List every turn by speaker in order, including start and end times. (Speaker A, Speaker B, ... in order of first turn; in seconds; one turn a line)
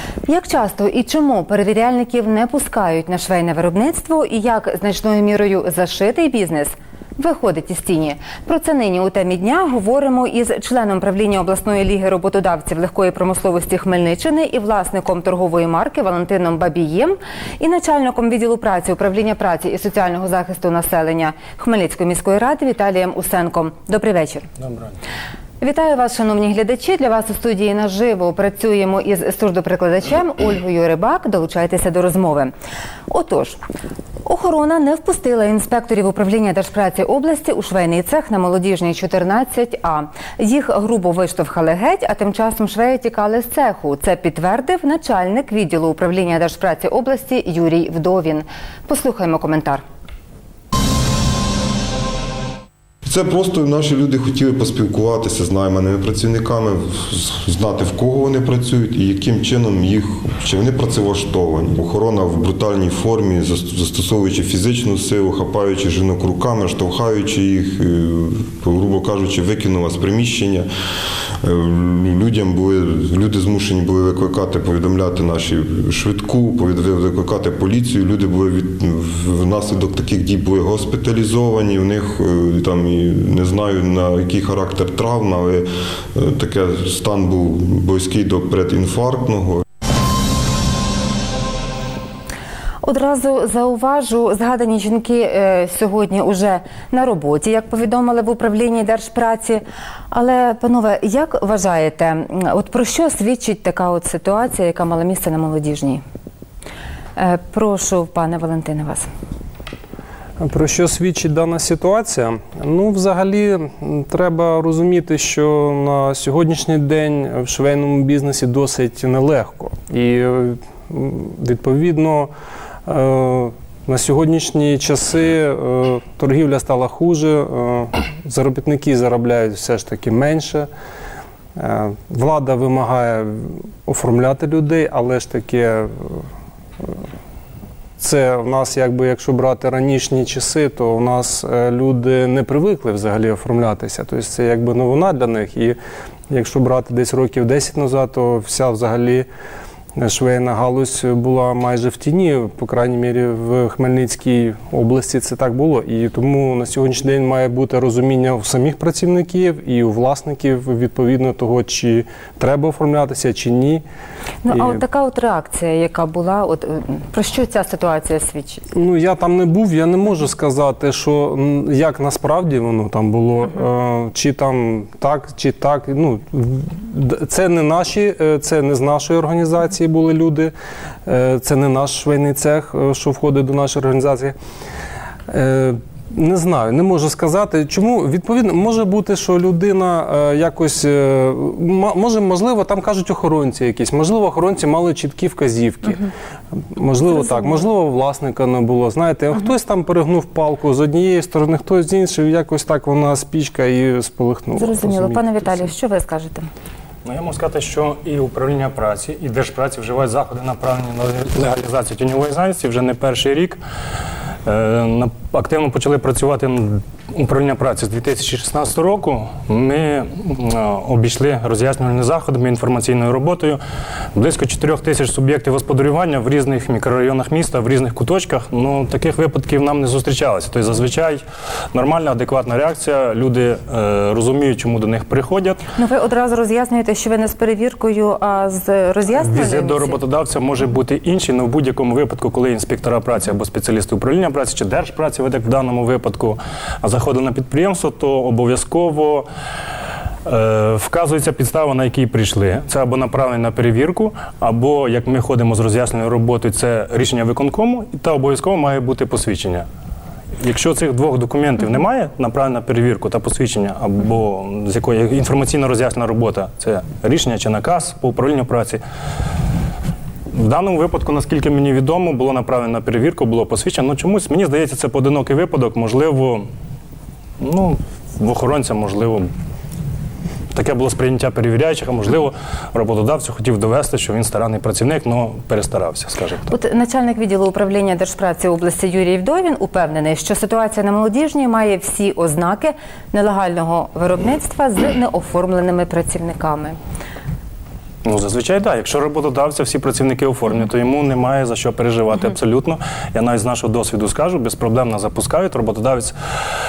Speaker A: 0.3-24.5
Speaker A: 25.6-32.5
Speaker A: 33.1-33.6
Speaker A: 34.2-49.8
Speaker B: 53.0-70.7
Speaker B: 71.4-89.6
Speaker A: 92.8-106.0
Speaker A: 107.2-109.1
Speaker C: 110.4-122.3
Speaker C: 122.9-130.7
Speaker C: 131.6-136.3
Speaker C: 138.0-145.8
Speaker C: 146.3-149.3
Speaker C: 150.0-163.8
Speaker A: 164.4-168.6
Speaker C: 164.5-164.8
Speaker C: 168.7-180.5
Speaker C: 181.1-184.4
Speaker C: 185.3-196.1
Speaker C: 196.7-205.6
Speaker A: 204.6-206.5
Speaker D: 207.1-213.6
Speaker D: 214.4-223.6
Speaker D: 224.2-231.2
Speaker D: 231.7-235.6
Speaker A: 235.8-240.0
Speaker D: 239.2-249.3
Speaker D: 250.3-259.7
Speaker D: 260.4-268.8
Speaker D: 270.3-276.5
Speaker D: 277.4-279.3
Speaker D: 280.5-286.5
Speaker A: 286.5-296.8
Speaker D: 298.1-306.1